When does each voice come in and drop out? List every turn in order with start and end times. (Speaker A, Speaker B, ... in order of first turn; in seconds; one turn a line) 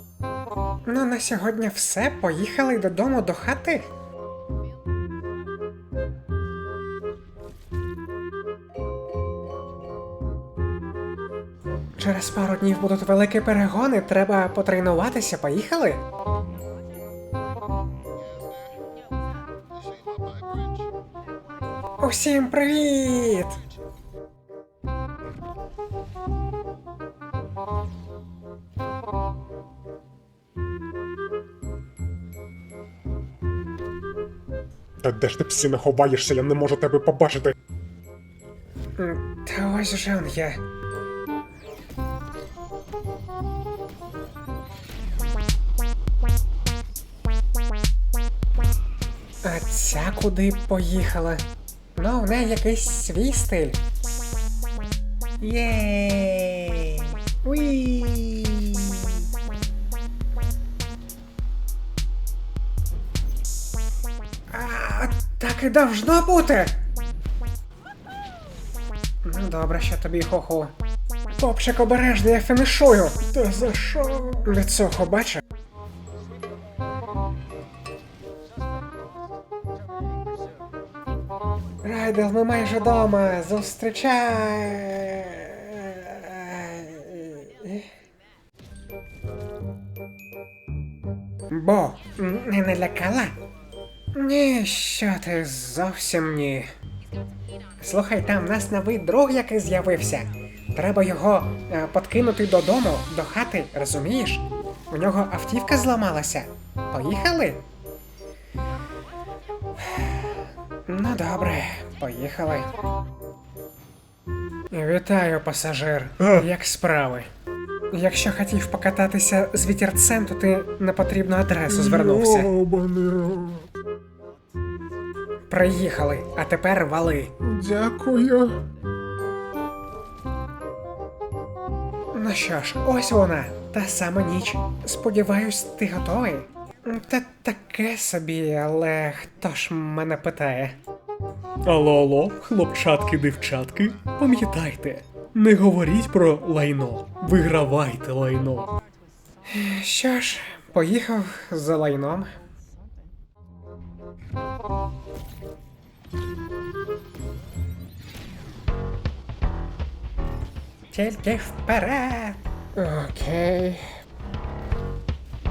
Speaker A: 0.9-3.9
Speaker A: 12.0-16.0
Speaker A: 22.0-23.6
Speaker B: 35.0-37.6
Speaker A: 39.0-40.6
Speaker A: 49.4-51.4
Speaker A: 52.0-53.8
Speaker A: 55.4-59.3
Speaker A: 64.5-66.8
Speaker A: 69.2-70.7
Speaker A: 71.3-75.4
Speaker A: 81.8-87.9
Speaker A: 91.5-93.4
Speaker A: 94.1-96.7
Speaker A: 97.8-107.6
Speaker A: 110.0-110.3
Speaker A: 110.9-112.7
Speaker A: 114.7-117.3
Speaker A: 117.9-122.5
Speaker C: 121.7-123.6
Speaker A: 125.5-127.4
Speaker C: 127.5-128.6
Speaker B: 127.9-128.6
Speaker A: 132.1-140.8
Speaker C: 141.7-148.8
Speaker A: 149.5-152.3
Speaker A: 160.9-163.9